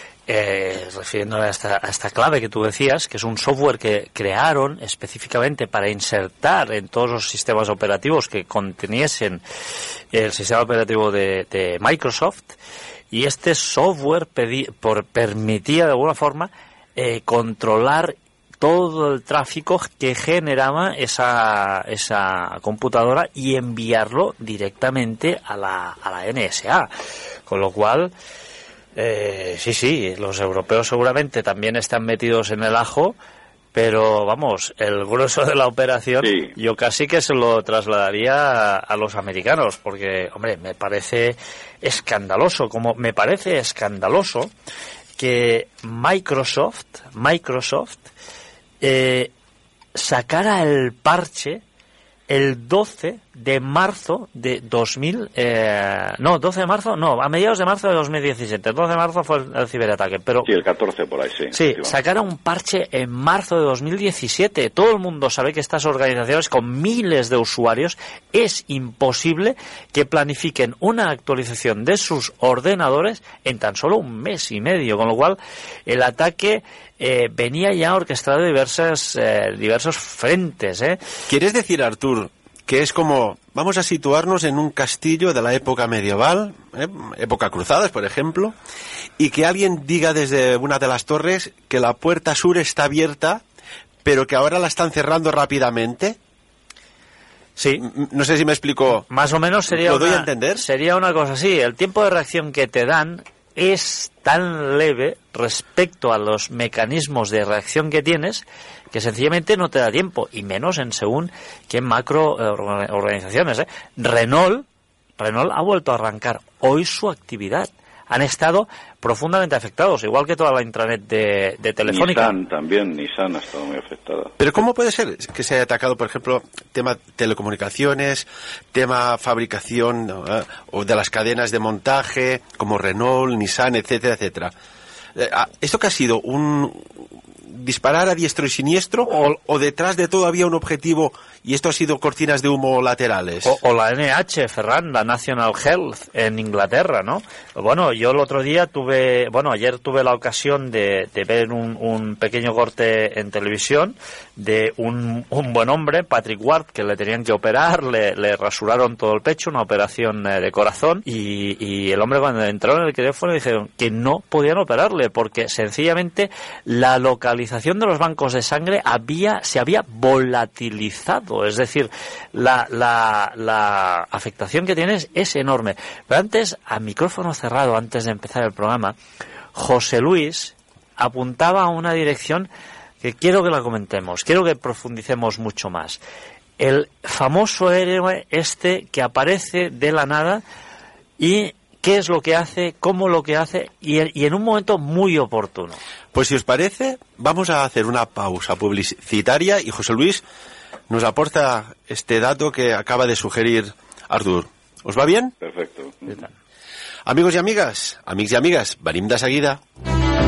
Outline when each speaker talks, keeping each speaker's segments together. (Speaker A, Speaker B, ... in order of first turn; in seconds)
Speaker A: 0.3-9.4, 10.1-12.6, 13.1-26.9, 27.5-28.1, 29.0-33.2, 33.7-44.5, 45.2-48.1, 48.8-49.3, 50.0-51.6, 52.3-60.5, 61.5-81.0, 97.6-97.8, 99.1-114.7, 115.2-122.4, 143.4-179.0, 179.6-182.5, 183.0-186.0, 186.6-190.4, 191.2-195.8
Speaker B: 36.2-36.5, 60.5-62.0, 121.9-124.3, 205.4-206.2
Speaker C: 81.3-88.5, 89.2-93.4, 94.0-96.2, 97.8-99.1, 99.7-100.7, 124.4-134.5, 135.2-143.6, 196.1-200.2, 200.9-205.3, 207.1-209.6